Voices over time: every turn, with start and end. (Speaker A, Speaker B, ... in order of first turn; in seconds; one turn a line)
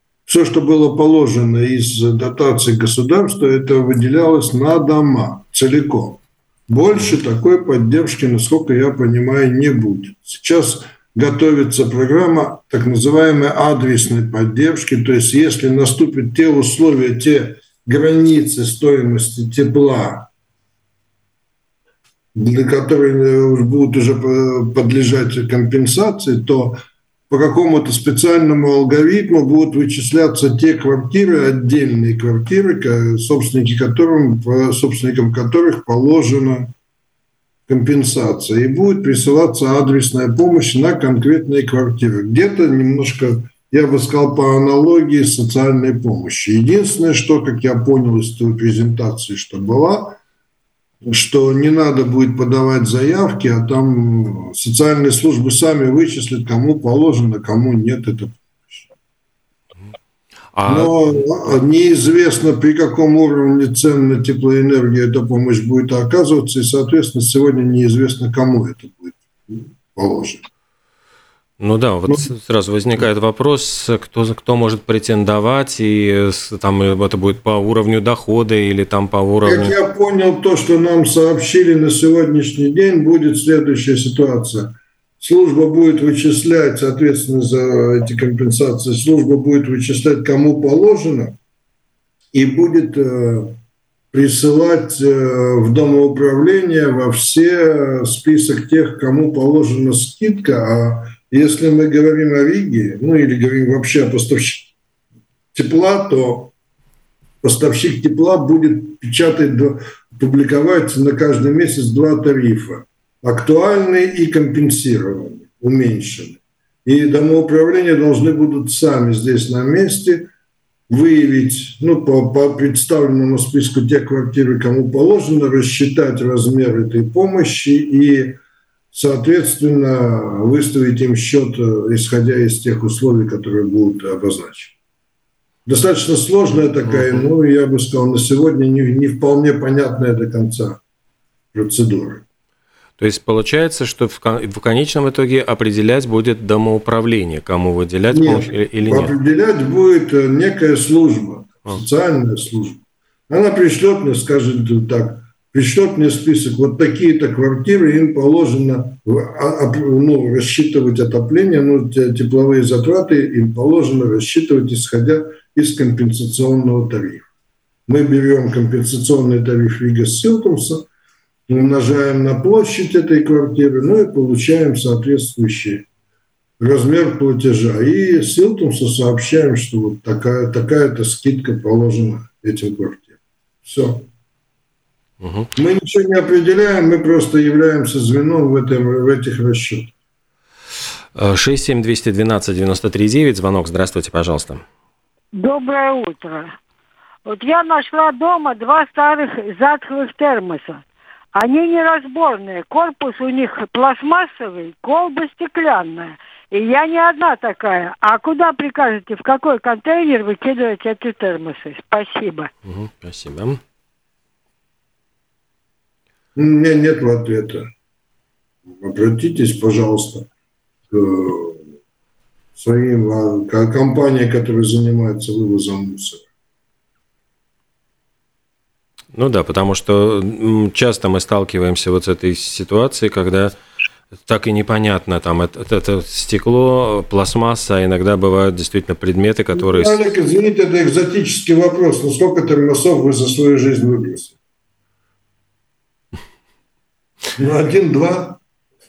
Speaker A: 0.3-20.3
Speaker A: 22.3-36.7
Speaker A: 37.7-50.2
Speaker A: 51.0-58.9
Speaker B: 60.5-61.1
Speaker A: 60.6-70.5
Speaker B: 71.6-79.7
Speaker A: 79.4-91.3
Speaker A: 92.3-93.6
Speaker A: 94.1-104.7
Speaker A: 105.5-106.5
Speaker A: 107.4-120.3
Speaker A: 120.9-128.4
Speaker A: 128.9-134.8
Speaker A: 135.6-140.8
Speaker B: 136.9-137.3
Speaker A: 141.5-142.2
Speaker B: 143.0-149.1
Speaker A: 148.1-167.2
Speaker A: 167.9-170.9
Speaker A: 171.5-175.9
Speaker A: 176.6-184.1
Speaker B: 185.2-185.5
Speaker A: 185.6-189.9
Speaker B: 191.1-194.6
Speaker C: 195.3-196.5
Speaker C: 197.2-200.8
Speaker C: 201.3-212.5
Speaker B: 212.7-213.6
Speaker A: 216.3-217.7
Speaker A: 218.7-220.3
Speaker A: 220.9-221.7
Speaker A: 222.6-226.2
Speaker B: 229.1-233.5
Speaker B: 234.2-240.0
Speaker A: 239.6-244.3
Speaker A: 247.3-248.4